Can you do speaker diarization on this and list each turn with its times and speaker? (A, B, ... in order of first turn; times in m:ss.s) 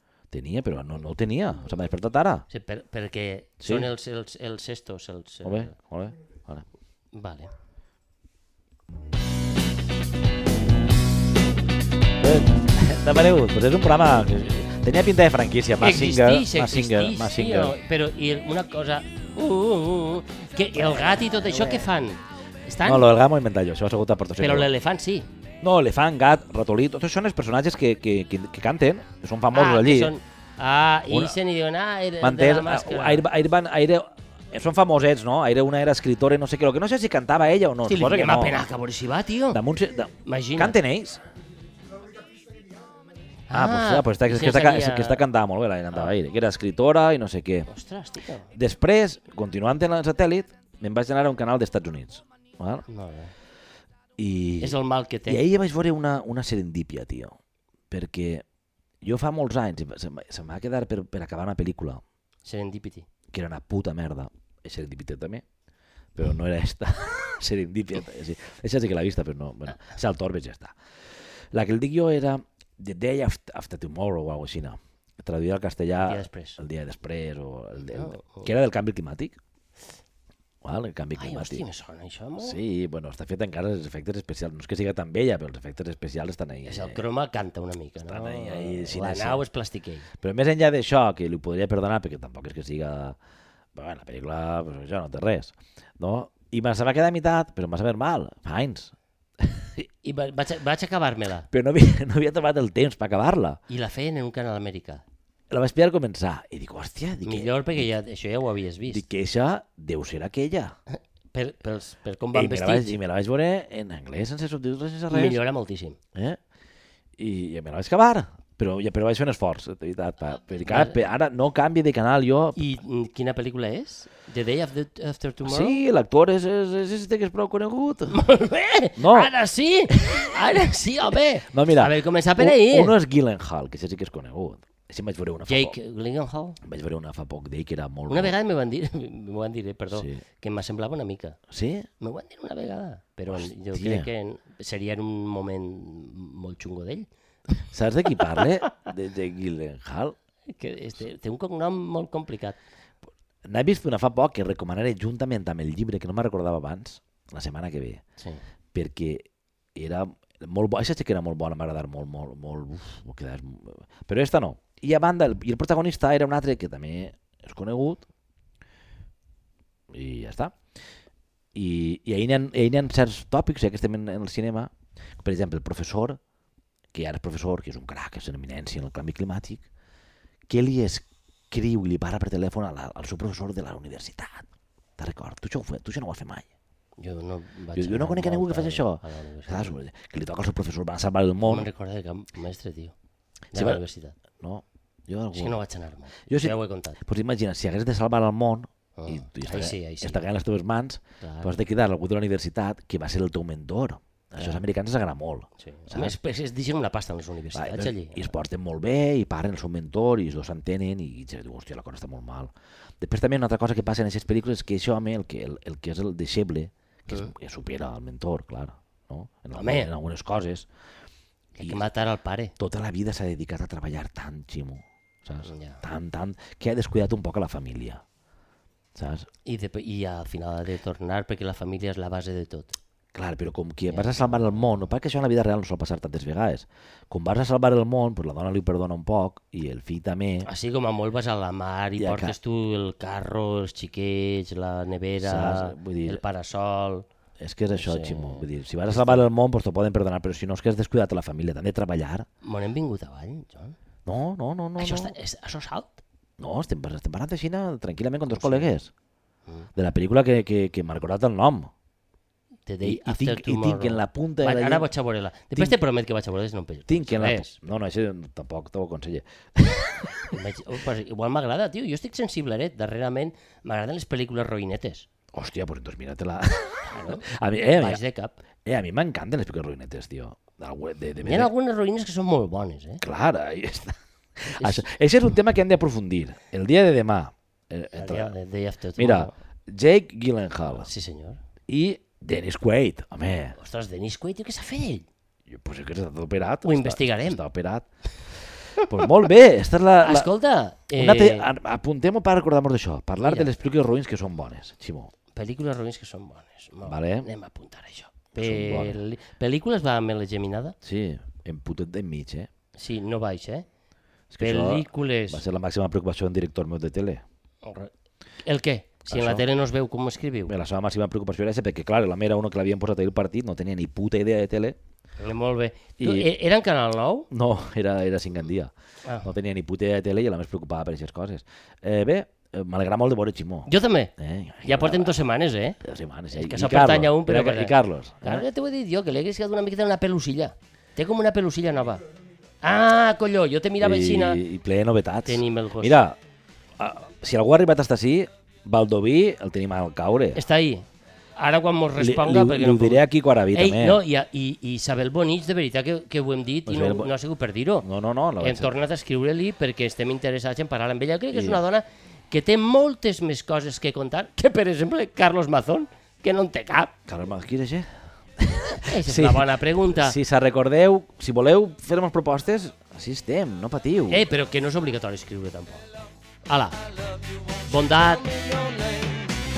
0:00.3-0:02.4 A
0:02.5-0:05.7 B
0:03.6-0:03.9 A
0:05.4-0:06.6 A
0:07.1-0:07.5 B
0:12.2-0:17.8 A
0:15.8-0:23.1 B
0:20.7-0:22.0 A
0:22.8-0:24.7 A
0:24.4-0:25.3 B
0:25.6-0:30.2 A
0:29.5-0:33.2 B
0:31.1-0:31.4 A
0:32.2-0:38.6 A
0:37.8-0:39.6 B
0:39.5-0:41.2 A
0:40.2-0:40.8 B
0:43.5-0:45.2 B
0:43.5-0:47.7 A
0:47.7-0:48.5 B
0:48.5-0:52.8 A
0:52.9-0:53.3 B
0:54.2-0:57.4 A
0:54.6-0:55.4 B
0:57.9-0:58.4 A
0:59.0-1:02.0 A
1:02.4-1:03.0 B
1:03.3-1:05.4 A
1:06.1-1:10.8 A
1:11.5-1:19.4 A
1:16.0-1:16.6 B
1:17.9-1:18.5 B
1:20.6-1:21.6 A
1:21.2-1:22.6 B
1:22.4-1:27.0 A
1:26.6-1:30.1 B
1:28.0-1:29.4 A
1:30.2-1:33.2 A
1:33.7-1:39.8 A
1:40.0-1:41.5 B
1:41.5-1:43.6 A
1:43.7-1:45.0 B
1:45.5-1:47.9 A
1:47.2-1:49.0 B
1:48.9-1:50.8 A
1:50.9-1:53.0 B
1:52.3-1:55.4 A
1:55.1-1:56.0 B
1:56.1-1:56.4 A
1:57.2-2:02.6 A
2:00.6-2:01.0 B
2:02.6-2:05.8 B
2:05.4-2:08.2 A
2:08.1-2:13.0 B
2:09.0-2:09.3 A
2:09.9-2:10.3 A
2:11.5-2:15.7 A
2:15.5-2:16.6 B
2:16.6-2:18.4 A
2:18.1-2:21.4 B
2:19.9-2:20.2 A
2:21.5-2:21.9 A
2:22.0-2:27.1 B
2:23.3-2:24.1 A
2:27.7-2:30.1 A
2:28.2-2:28.7 B
2:30.5-2:32.6 B
2:33.4-2:38.0 A
2:38.7-2:48.0 A
2:49.9-2:50.6 A
2:51.5-2:56.2 A
2:56.9-2:59.6 A
3:00.5-3:04.5 A
3:05.0-3:06.4 A
3:07.0-3:09.8 B
3:07.7-3:11.7 A
3:11.4-3:12.9 B
3:13.5-3:14.1 B
3:13.5-3:13.8 A
3:14.4-3:15.6 A
3:15.3-3:17.0 B
3:16.3-3:26.2 A
3:19.0-3:20.2 B
3:21.2-3:21.6 B
3:24.4-3:24.6 B
3:25.6-3:28.3 B
3:27.5-3:40.7 A
3:39.5-3:39.9 B
3:41.6-3:41.8 A
3:41.6-3:42.5 B
3:42.6-3:48.0 A
3:45.4-3:45.8 B
3:48.9-3:49.3 A
3:49.4-3:52.8 B
3:53.1-4:00.5 A
3:53.9-3:54.6 B
4:00.4-4:07.1 B
4:02.0-4:02.4 A
4:05.2-4:06.2 A
4:07.4-4:12.3 A
4:07.7-4:09.2 B
4:12.4-4:13.8 B
4:14.0-4:15.1 A
4:14.8-4:16.0 B
4:16.4-4:18.9 A
4:18.3-4:18.7 B
4:19.7-4:21.7 A
4:22.7-4:27.6 B
4:22.8-4:24.9 A
4:26.9-4:30.4 A
4:30.3-4:35.1 B
4:35.3-4:38.0 A
4:36.8-4:38.4 B
4:38.6-4:41.5 A
4:41.2-4:43.0 B
4:43.0-4:48.3 A
4:44.6-4:44.9 B
4:47.9-4:49.3 B
4:49.0-4:50.9 A
4:50.7-4:51.4 B
4:51.7-4:53.6 A
4:53.6-4:55.1 B
4:55.5-5:00.3 A
4:56.6-4:57.4 B
5:00.0-5:01.5 B
5:00.9-5:05.1 A
5:03.2-5:03.5 B
5:05.3-5:10.8 B
5:06.8-5:07.3 A
5:08.3-5:09.0 A
5:10.8-5:12.5 A
5:12.8-5:13.6 B
5:14.3-5:17.2 A
5:14.4-5:15.4 B
5:17.6-5:17.9 B
5:18.4-5:20.5 B
5:19.1-5:19.5 A
5:20.5-5:24.8 A
5:25.2-5:27.3 B
5:26.0-5:26.3 A
5:27.3-5:28.7 A
5:29.2-5:35.2 A
5:33.6-5:34.1 B
5:34.6-5:35.8 B
5:35.8-5:38.4 A
5:36.3-5:42.0 B
5:42.6-5:44.4 B
5:43.8-5:46.2 A
5:45.2-5:46.0 B
5:46.8-5:50.4 A
5:50.3-5:50.8 B
5:51.4-5:57.9 B
5:52.0-5:54.0 A
5:56.6-5:57.1 A
5:57.8-5:58.8 A
5:58.4-6:06.9 B
6:01.3-6:01.6 A
6:07.1-6:14.2 A
6:08.7-6:10.2 B
6:14.1-6:15.9 B
6:16.4-6:16.8 B
6:17.6-6:18.3 B
6:18.2-6:19.2 A